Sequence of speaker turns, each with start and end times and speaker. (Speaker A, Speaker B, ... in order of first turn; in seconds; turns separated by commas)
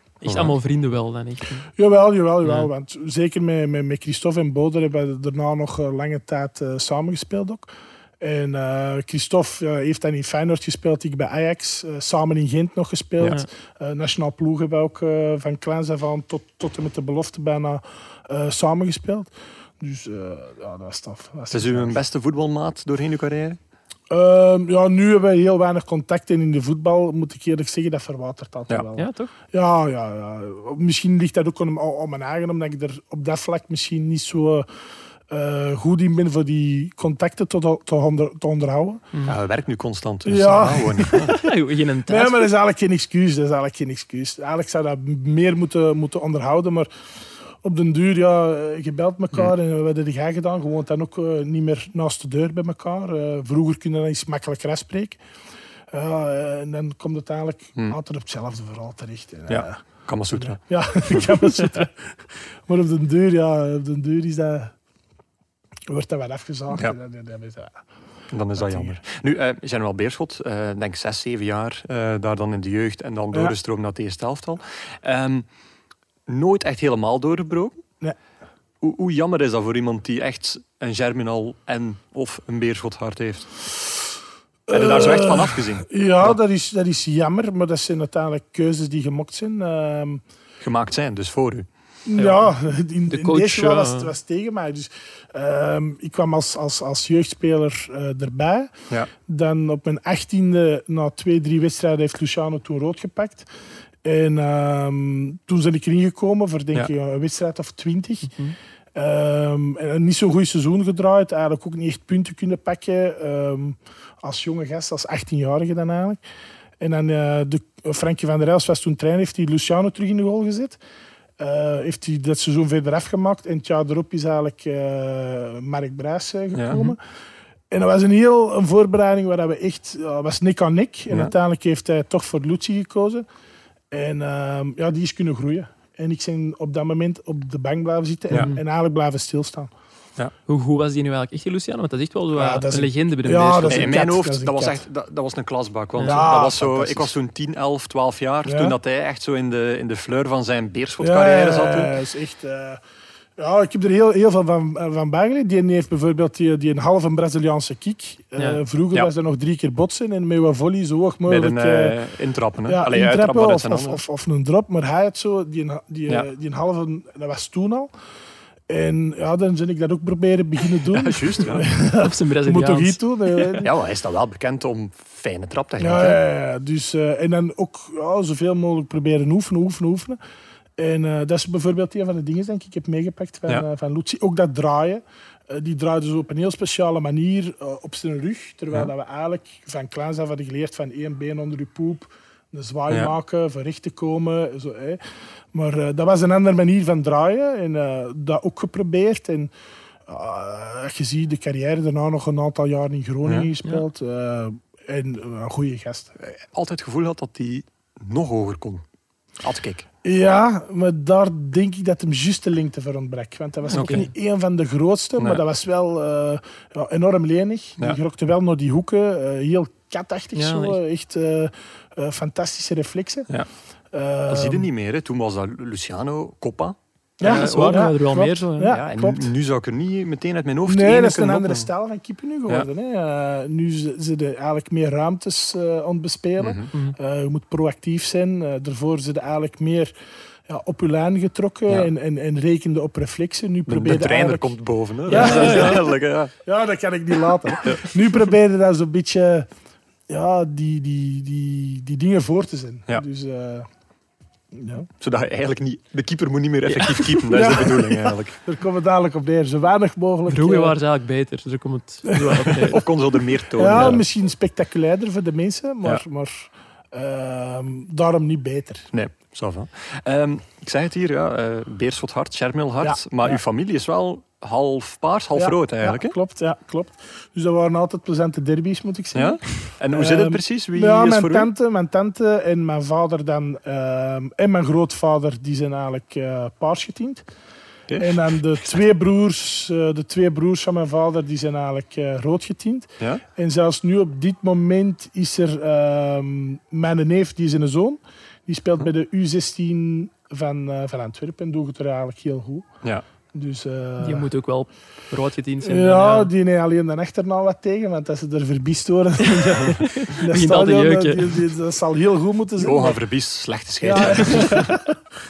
Speaker A: 0.2-1.7, Speaker B: 0.2-0.5, Speaker C: 1.8-22.0, Speaker B: 21.5-23.6, Speaker C: 24.1-34.7, Speaker A: 28.9-29.3, Speaker C: 35.3-39.0, Speaker B: 39.2-41.4, Speaker C: 40.2-41.5, Speaker A: 41.2-42.5, Speaker C: 42.1-46.9, Speaker C: 47.6-55.2, Speaker C: 55.9-59.8, Speaker B: 59.5-61.4, Speaker C: 60.3-64.7, Speaker C: 65.9-67.8, Speaker B: 68.3-75.5, Speaker C: 68.5-69.0, Speaker B: 76.3-77.8, Speaker B: 78.8-83.5, Speaker C: 84.7-90.2, Speaker B: 84.7-86.4, Speaker B: 90.6-92.4, Speaker C: 92.1-103.5, Speaker A: 93.1-94.1, Speaker C: 104.0-108.3, Speaker C: 108.9-116.2, Speaker C: 116.8-120.8, Speaker C: 121.4-127.0, Speaker B: 126.5-126.9, Speaker C: 127.7-133.2, Speaker C: 133.9-139.7, Speaker A: 138.3-138.6, Speaker A: 140.5-143.9, Speaker C: 142.3-144.8, Speaker B: 143.7-151.9, Speaker A: 146.0-146.2, Speaker C: 146.0-147.1, Speaker C: 148.4-148.8, Speaker C: 151.0-152.8, Speaker C: 153.4-162.0, Speaker A: 158.4-158.6, Speaker B: 161.2-164.0, Speaker C: 162.7-167.9, Speaker C: 168.7-173.7, Speaker B: 170.9-171.7, Speaker A: 171.9-173.6, Speaker B: 173.6-176.2, Speaker C: 175.8-180.2, Speaker C: 180.8-195.0, Speaker B: 192.9-193.1, Speaker C: 195.5-199.5, Speaker C: 200.1-206.1, Speaker B: 206.2-208.8, Speaker B: 209.4-209.9, Speaker C: 210.0-223.3, Speaker A: 213.7-214.1, Speaker B: 213.7-214.1, Speaker A: 220.3-220.8, Speaker C: 223.9-224.7, Speaker B: 224.3-227.9, Speaker C: 227.2-229.3, Speaker A: 227.2-228.7, Speaker B: 228.6-231.7, Speaker C: 230.6-239.9, Speaker B: 236.4-236.7, Speaker C: 240.5-244.5, Speaker B: 243.7-246.3, Speaker C: 245.1-245.9, Speaker A: 245.1-245.8, Speaker C: 246.4-249.5, Speaker C: 250.1-253.7, Speaker C: 254.5-254.9, Speaker B: 255.0-258.4, Speaker C: 257.2-260.8, Speaker A: 260.3-262.8, Speaker C: 262.1-262.8, Speaker B: 262.6-264.0, Speaker C: 263.5-268.9, Speaker B: 268.9-276.1, Speaker C: 272.8-273.4, Speaker C: 275.4-287.2, Speaker B: 279.1-281.5, Speaker B: 287.9-288.3, Speaker C: 288.0-302.7, Speaker C: 303.3-304.3, Speaker A: 304.0-306.3, Speaker C: 305.6-313.0, Speaker A: 309.2-311.4, Speaker B: 312.6-314.6, Speaker C: 313.8-315.0, Speaker A: 314.0-314.5